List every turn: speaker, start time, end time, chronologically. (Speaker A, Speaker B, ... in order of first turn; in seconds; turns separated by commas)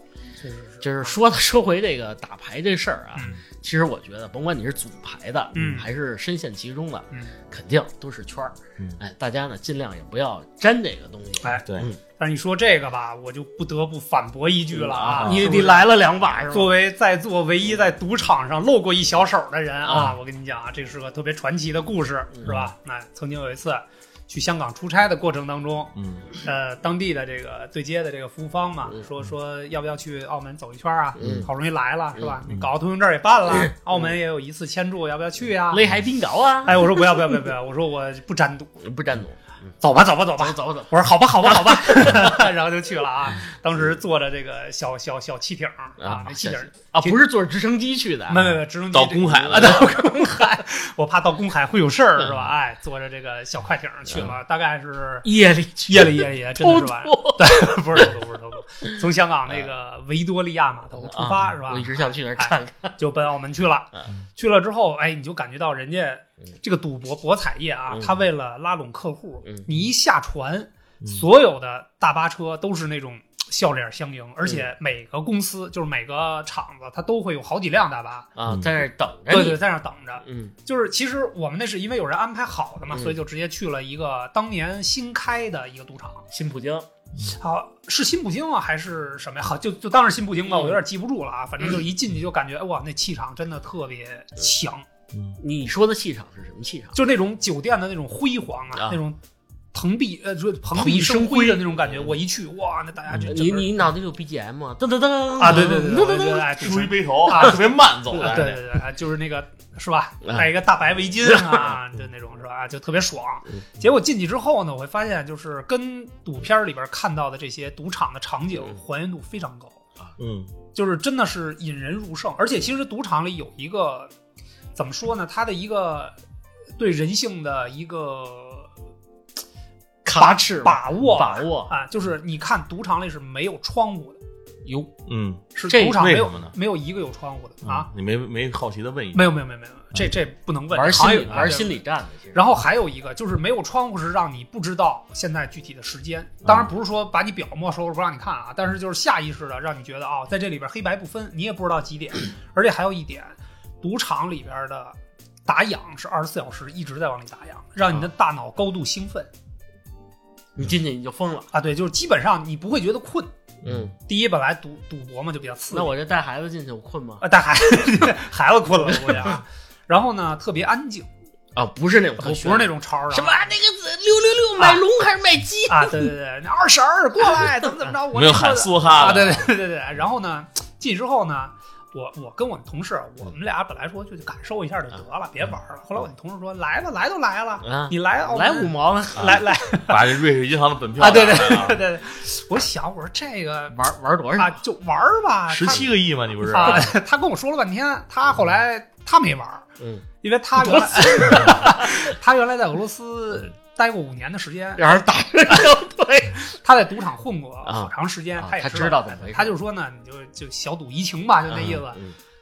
Speaker A: 0.4-1.1, Speaker B: 0.8-12.0, Speaker A: 3.1-3.4, Speaker A: 5.5-5.9, Speaker A: 11.4-15.8, Speaker B: 14.7-16.7, Speaker C: 15.2-15.7, Speaker A: 16.5-35.8, Speaker B: 19.9-20.1, Speaker B: 22.3-22.6, Speaker C: 25.9-26.3, Speaker B: 31.2-31.5, Speaker B: 32.1-32.4, Speaker B: 33.5-34.0, Speaker B: 35.7-37.1, Speaker A: 36.6-38.8, Speaker B: 38.8-39.7, Speaker A: 39.8-47.2, Speaker B: 40.4-42.5, Speaker B: 46.0-48.5, Speaker A: 48.3-55.3, Speaker C: 48.9-50.0, Speaker B: 49.5-50.4, Speaker B: 54.1-54.3, Speaker B: 55.2-58.0, Speaker A: 55.9-78.3, Speaker B: 61.0-63.0, Speaker B: 67.9-68.2, Speaker B: 74.4-74.7, Speaker B: 78.3-79.6, Speaker A: 79.3-86.3, Speaker B: 80.2-80.5, Speaker B: 82.9-83.2, Speaker B: 86.3-86.9, Speaker A: 87.3-94.8, Speaker B: 90.5-90.8, Speaker C: 95.1-95.4, Speaker B: 95.4-97.0, Speaker A: 96.9-99.2, Speaker A: 99.7-103.7, Speaker B: 100.7-102.1, Speaker B: 103.2-106.7, Speaker A: 105.4-119.8, Speaker C: 106.6-108.6, Speaker B: 108.1-108.5, Speaker B: 110.2-110.5, Speaker B: 111.2-111.8, Speaker C: 120.2-120.5, Speaker A: 120.7-124.1, Speaker A: 124.8-126.2, Speaker A: 126.8-128.7, Speaker B: 130.0-131.7, Speaker A: 130.1-134.2, Speaker B: 134.6-134.9, Speaker C: 135.1-136.5, Speaker A: 135.6-137.9, Speaker B: 135.7-136.0, Speaker C: 137.6-139.4, Speaker A: 139.1-141.8, Speaker B: 140.7-142.4, Speaker A: 142.3-159.3, Speaker B: 160.6-161.5, Speaker A: 161.5-163.3, Speaker C: 163.6-163.9, Speaker B: 163.6-163.9, Speaker A: 164.1-165.9, Speaker B: 165.7-167.2, Speaker A: 167.2-171.1, Speaker B: 168.8-169.4, Speaker B: 171.6-176.1, Speaker A: 172.2-173.5, Speaker A: 174.6-174.8, Speaker A: 175.7-190.1, Speaker C: 178.1-179.5, Speaker B: 187.6-189.4, Speaker C: 189.2-191.8, Speaker A: 191.0-193.8, Speaker B: 193.7-194.6, Speaker A: 194.4-199.7, Speaker C: 195.5-196.9, Speaker B: 199.8-200.1, Speaker A: 200.2-205.7, Speaker B: 200.6-202.1, Speaker B: 204.8-206.4, Speaker A: 206.4-212.0, Speaker B: 207.6-209.6, Speaker B: 211.5-212.1